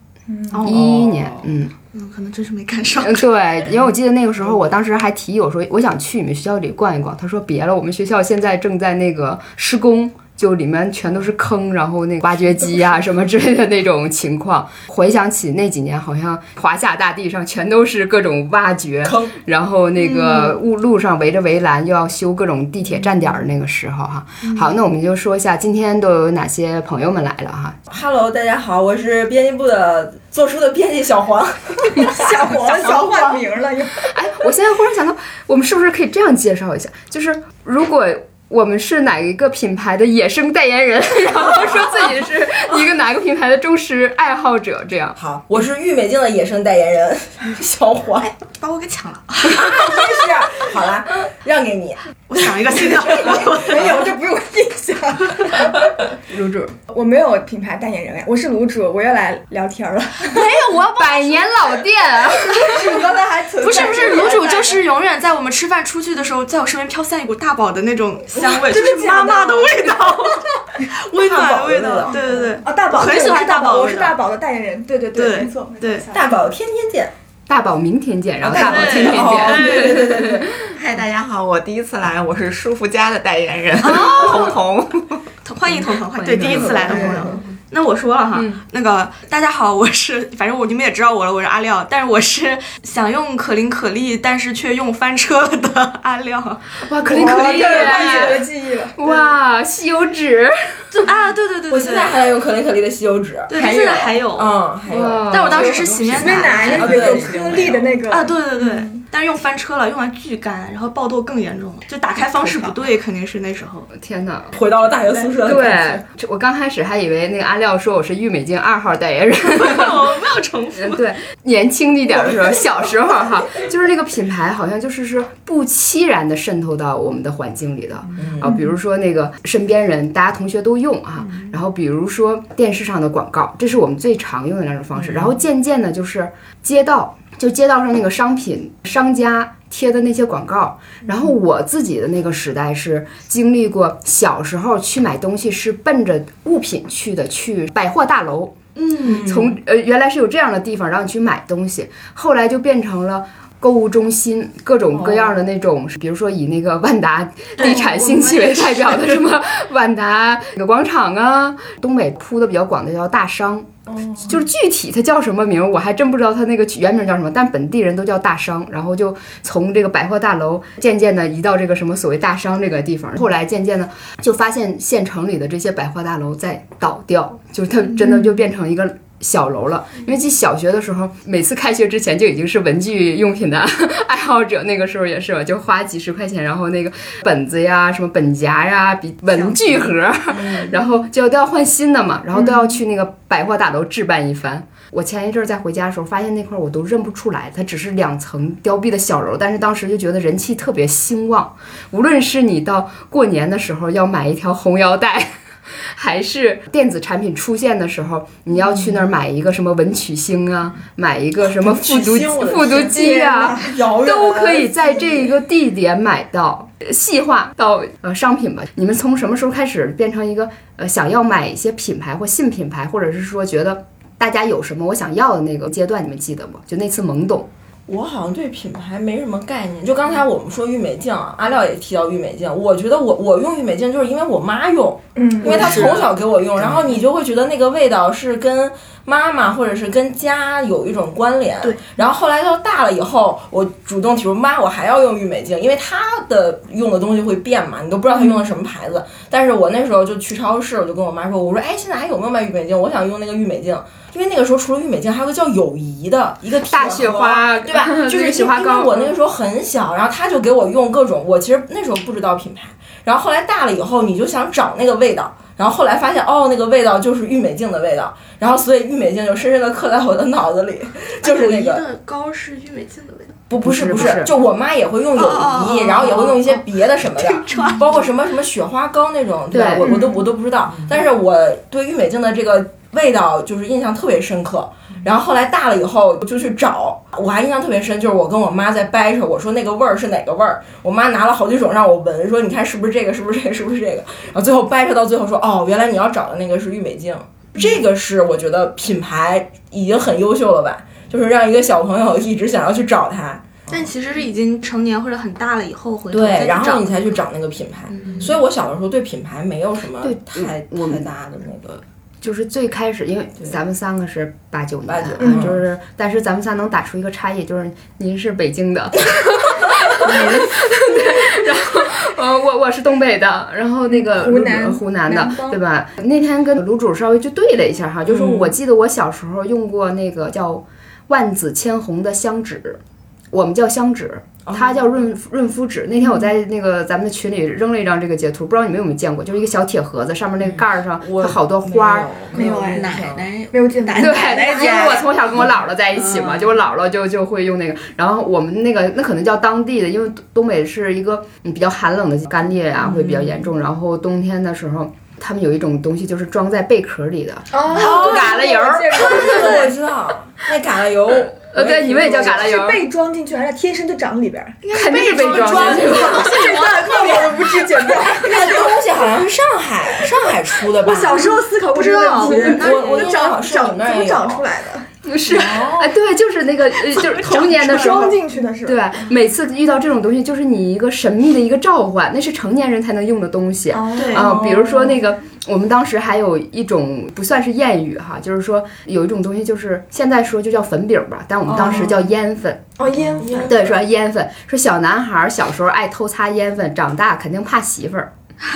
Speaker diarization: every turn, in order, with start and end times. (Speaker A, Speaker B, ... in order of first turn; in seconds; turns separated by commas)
Speaker A: 0.3-0.6, Speaker B: 0.5-1.0, Speaker C: 0.6-1.7, Speaker D: 0.7-1.3, Speaker B: 1.9-3.3, Speaker C: 3.0-27.8, Speaker D: 19.0-19.3, Speaker B: 20.0-20.6, Speaker D: 27.9-32.6, Speaker A: 31.9-34.1, Speaker C: 34.1-45.2, Speaker D: 45.2-48.3, Speaker B: 48.3-50.0, Speaker D: 49.5-52.0, Speaker A: 49.6-50.6, Speaker B: 52.3-54.0, Speaker D: 52.8-53.5, Speaker A: 53.5-56.0, Speaker C: 56.3-56.7, Speaker A: 56.9-60.5, Speaker B: 60.3-61.9, Speaker C: 61.0-63.0, Speaker A: 62.5-64.8, Speaker B: 62.7-63.0, Speaker B: 63.6-74.2, Speaker A: 68.3-70.3, Speaker D: 71.3-72.2, Speaker A: 71.6-76.3, Speaker B: 75.1-76.1, Speaker D: 76.1-77.1, Speaker C: 77.5-80.6, Speaker D: 78.4-80.5, Speaker B: 78.5-80.3, Speaker E: 80.6-85.2, Speaker B: 83.8-84.6, Speaker B: 85.4-96.6, Speaker C: 86.2-87.3, Speaker D: 86.3-87.4, Speaker C: 96.8-100.5, Speaker A: 97.0-99.3, Speaker B: 97.4-98.3, Speaker B: 100.9-102.2, Speaker D: 101.7-107.8, Speaker B: 103.5-104.6, Speaker C: 104.9-105.7, Speaker B: 105.3-107.5, Speaker E: 105.5-107.9, Speaker A: 106.1-109.0, Speaker B: 108.1-113.9, Speaker E: 112.5-112.7, Speaker C: 114.0-114.5, Speaker D: 114.5-116.0, Speaker C: 115.4-120.0, Speaker B: 119.5-121.0, Speaker C: 120.8-205.3, Speaker D: 128.2-128.6, Speaker D: 135.0-135.3, Speaker D: 149.0-149.5, Speaker D: 154.9-155.4, Speaker B: 157.6-159.3, Speaker D: 190.3-190.8, Speaker C: 205.8-227.5, Speaker D: 211.4-215.3, Speaker D: 227.9-271.8, Speaker A: 235.2-236.0, Speaker B: 235.5-236.0, Speaker C: 256.6-259.1, Speaker B: 271.2-273.4, Speaker D: 273.5-303.7, Speaker C: 273.6-274.3, Speaker B: 275.1-276.6, Speaker B: 277.2-277.9, Speaker C: 279.5-280.0, Speaker A: 279.8-280.2, Speaker B: 303.7-306.9, Speaker D: 306.1-311.8, Speaker B: 307.9-308.2, Speaker C: 310.0-311.1, Speaker C: 312.2-332.8, Speaker D: 314.9-315.6, Speaker D: 320.0-320.4, Speaker A: 323.9-325.6, Speaker D: 328.1-328.5, Speaker C: 333.3-342.1, Speaker D: 334.4-334.9, Speaker D: 341.0-343.3, Speaker A: 342.3-343.0, Speaker E: 342.7-345.2, Speaker A: 343.5-345.0, Speaker C: 344.0-359.6, Speaker E: 346.2-346.5, Speaker D: 352.8-353.4, Speaker A: 357.5-359.8, Speaker D: 357.7-362.6, Speaker C: 361.5-362.8, Speaker A: 362.1-369.1, Speaker B: 364.6-368.1, Speaker C: 364.7-366.4, Speaker D: 368.0-371.4, Speaker A: 370.1-375.8, Speaker B: 371.6-373.3, Speaker D: 372.1-374.4, Speaker C: 375.0-392.7, Speaker D: 375.3-375.9, Speaker B: 376.9-378.0, Speaker A: 377.3-378.8, Speaker A: 383.7-384.4, Speaker B: 383.9-384.3, Speaker D: 384.1-385.0, Speaker D: 391.5-392.1, Speaker A: 391.6-391.9, Speaker A: 392.8-393.5, Speaker D: 392.9-393.7, Speaker C: 393.4-398.1